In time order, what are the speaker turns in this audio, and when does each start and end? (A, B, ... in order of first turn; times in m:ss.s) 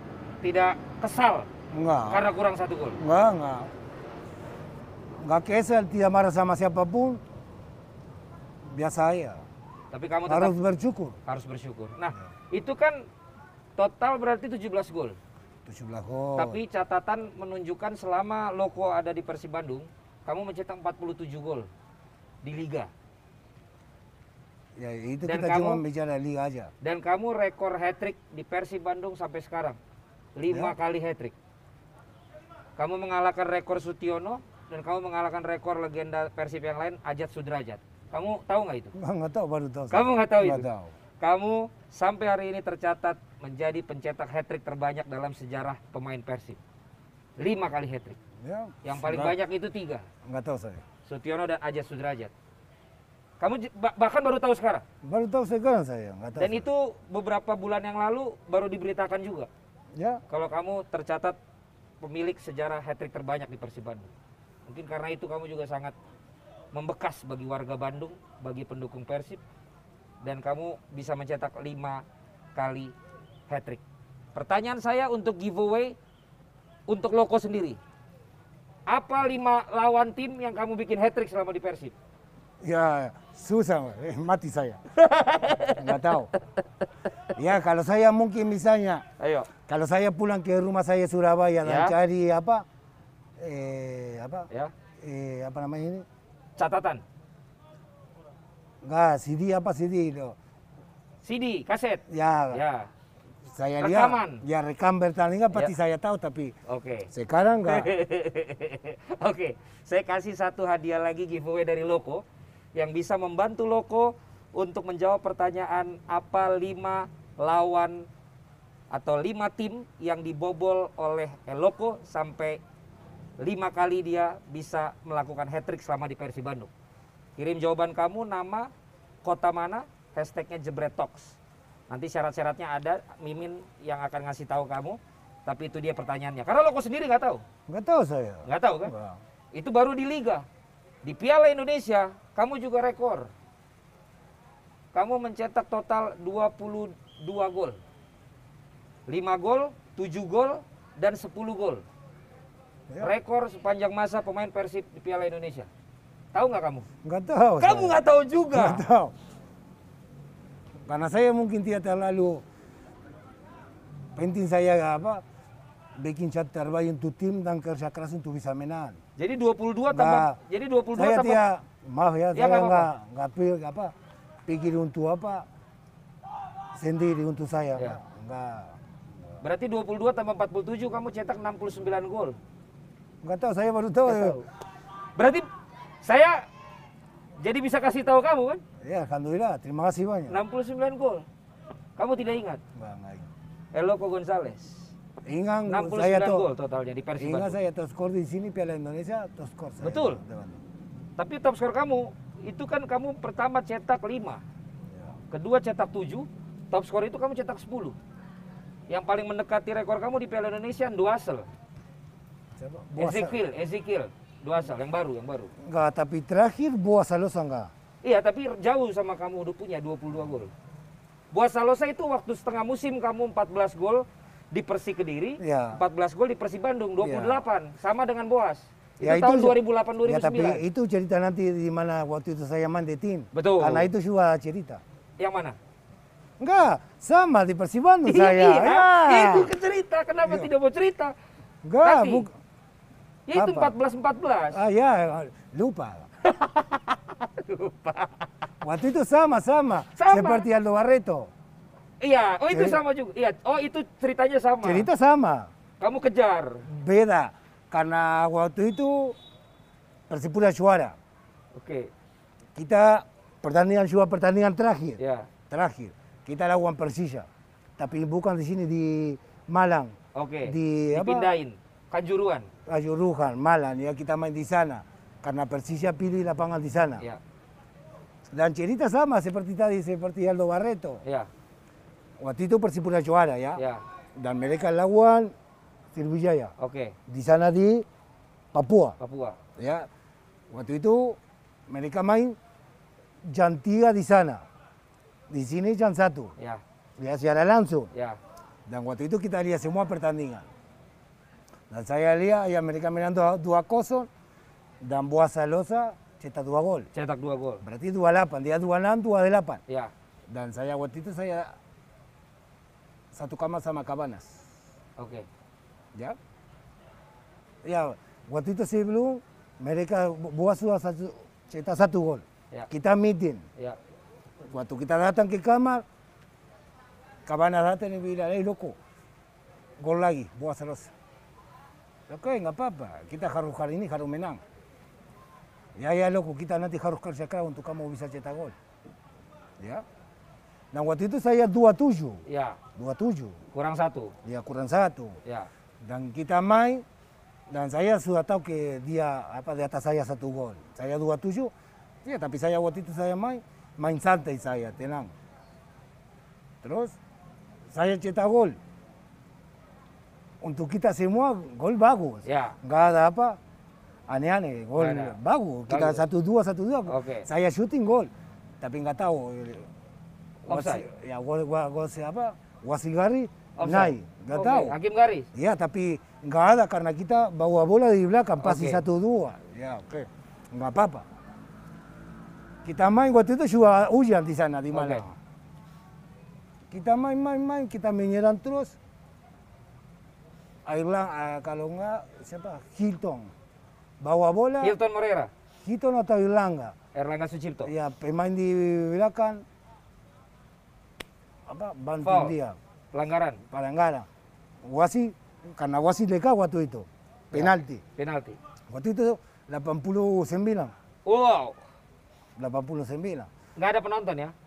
0:00.4-0:01.5 A
0:01.7-0:02.2 B
0:02.1-0:03.0 A
0:03.0-0:03.7 B
0:05.2-0:07.2 B
0:08.6-0:09.4 B
0:09.9-0:10.6 A
0:10.3-0:11.2 B
0:11.2-0:13.0 A
0:13.8-0:15.2 A
0:15.6-0:16.6 B
0:16.4-0:21.7 A
0:22.4-0:22.9 A
0:24.8-0:26.7 B
0:25.2-0:25.8 A
0:26.8-0:29.8 A
0:30.4-0:31.3 A
0:30.5-0:30.7 B
0:32.8-0:38.9 A
0:38.9-0:40.9 B
0:39.9-0:40.6 A
0:41.2-0:46.6 A
0:47.4-0:48.2 A
0:48.4-0:49.4 B
0:48.8-0:50.0 A
0:50.2-0:50.8 B
0:51.0-0:52.3 A
0:53.4-0:54.8 A
0:55.0-0:56.6 B
0:56.4-0:59.5 A
0:59.9-1:00.2 B
1:00.3-1:01.4 A
1:02.0-1:04.1 A
1:04.7-1:05.9 A
1:06.7-1:09.4 A
1:10.2-1:12.0 A
1:12.5-1:12.9 A
1:13.5-1:13.8 A
1:14.3-1:16.0 A
1:16.9-1:17.8 A
1:18.9-1:21.9 A
1:22.6-1:24.8 B
1:24.9-1:26.1 A
1:25.6-1:26.3 B
1:27.3-1:29.0 B
1:29.2-1:29.5 A
1:29.7-1:32.6 B
1:31.6-1:31.9 A
1:33.4-1:34.5 B
1:35.0-1:36.0 B
1:36.6-1:37.0 A
1:38.8-1:40.4 B
1:41.2-1:42.9 A
1:42.1-1:42.6 B
1:43.5-1:46.5 B
1:43.8-1:44.4 A
1:46.7-1:47.1 A
1:47.1-1:47.9 B
1:47.6-1:52.2 A
1:52.7-1:58.1 A
1:58.9-2:02.6 A
2:03.4-2:06.7 A
2:07.4-2:08.7 A
2:09.2-2:11.4 A
2:11.9-2:17.4 A
2:17.7-2:19.2 B
2:18.4-2:18.9 A
2:19.5-2:20.4 A
2:21.0-2:23.3 A
2:24.9-2:27.8 A
2:29.1-2:31.8 A
2:33.0-2:35.7 A
2:36.3-2:36.9 A
2:37.0-2:38.0 B
2:37.6-2:38.8 A
2:38.5-2:39.1 B
2:40.9-2:42.4 B
2:44.2-2:45.2 B
2:46.0-2:49.0 B
2:49.2-2:51.4 A
2:49.9-2:50.4 B
2:50.9-2:53.9 B
2:52.3-2:52.9 A
2:54.4-2:55.5 B
2:56.7-2:58.8 B
2:59.4-3:02.4 A
3:03.2-3:04.4 B
3:04.0-3:04.4 A
3:05.2-3:05.5 A
3:06.0-3:06.4 A
3:07.4-3:08.6 A
3:08.8-3:10.4 B
3:10.3-3:11.3 A
3:12.0-3:12.6 A
3:12.7-3:13.3 B
3:13.7-3:14.9 A
3:15.2-3:16.5 B
3:15.7-3:17.6 A
3:17.2-3:20.6 B
3:19.8-3:20.2 A
3:21.2-3:24.4 A
3:25.3-3:28.0 A
3:28.9-3:31.5 A
3:32.5-3:33.4 B
3:33.0-3:35.5 A
3:35.6-3:37.7 B
3:38.0-3:40.5 A
3:41.3-3:50.6 A
3:45.4-3:45.8 B
3:47.0-3:47.4 B
3:49.0-3:54.8 B
3:53.3-3:53.9 A
3:55.2-3:55.6 A
3:56.4-3:59.5 B
3:58.0-4:01.1 A
4:01.6-4:02.3 B
4:01.8-4:02.2 A
4:03.3-4:04.6 A
4:03.3-4:03.7 B
4:04.5-4:06.1 B
4:06.2-4:08.3 A
4:08.6-4:11.3 B
4:09.9-4:10.4 A
4:12.0-4:14.9 A
4:12.5-4:12.8 B
4:14.6-4:15.5 B
4:15.8-4:16.6 A
4:16.6-4:19.2 B
4:20.1-4:21.0 B
4:21.5-4:21.9 A
4:22.6-4:27.3 B
4:25.0-4:25.3 A
4:27.8-4:31.3 B
4:30.1-4:32.5 A
4:32.6-4:37.0 B
4:38.3-4:41.0 B
4:41.0-4:41.3 A
4:42.2-4:43.6 B
4:43.6-4:43.8 A
4:44.2-4:45.3 B
4:45.9-4:46.5 B
4:46.6-4:47.0 A
4:47.1-4:47.8 B
4:48.5-4:49.0 B
4:49.0-4:49.4 A
4:49.6-4:49.9 B
4:50.5-4:52.4 B
4:53.2-4:54.4 B
4:55.3-4:56.3 B
4:57.0-4:57.9 B
4:57.9-4:58.2 A
4:58.7-5:00.5 B
5:01.7-5:04.1 B
5:04.8-5:06.9 B
5:06.9-5:07.6 A
5:07.6-5:09.6 B
5:10.3-5:11.6 B
5:13.1-5:14.5 B
5:15.0-5:15.3 A
5:17.6-5:23.4 B
5:24.4-5:25.8 B
5:27.2-5:28.8 B
5:29.8-5:30.9 B
5:32.1-5:34.4 B
5:35.8-5:38.6 B
5:39.6-5:39.8 B
5:40.7-5:42.2 B
5:42.2-5:42.6 A
5:42.8-5:43.4 B
5:43.5-5:44.1 A
5:44.2-5:45.2 B
5:45.8-5:46.8 B
5:47.5-5:51.5 B
5:52.0-5:55.1 B
5:56.6-5:57.0 B
5:57.7-5:58.6 B
6:00.4-6:03.4 B
6:02.2-6:02.6 A
6:04.1-6:08.1 B
6:04.8-6:05.2 A
6:05.7-6:06.0 A
6:06.9-6:07.3 A
6:08.6-6:09.7 B
6:10.4-6:10.8 A
6:10.5-6:14.8 B
6:13.6-6:15.3 A
6:15.3-6:21.1 B
6:18.4-6:18.8 A
6:22.6-6:25.2 B
6:24.7-6:25.0 A
6:26.7-6:28.8 B
6:30.6-6:33.3 B
6:34.0-6:34.8 B
6:34.6-6:35.3 A
6:35.6-6:36.8 B
6:36.9-6:37.7 A
6:37.6-6:39.4 B
6:41.5-6:42.6 B
6:42.0-6:42.3 A
6:42.9-6:43.4 A
6:43.5-6:44.1 B
6:44.6-6:47.8 B
6:47.3-6:48.4 A
6:48.7-6:50.7 B
6:51.0-6:51.6 A
6:52.4-6:53.3 B
6:53.6-6:54.3 A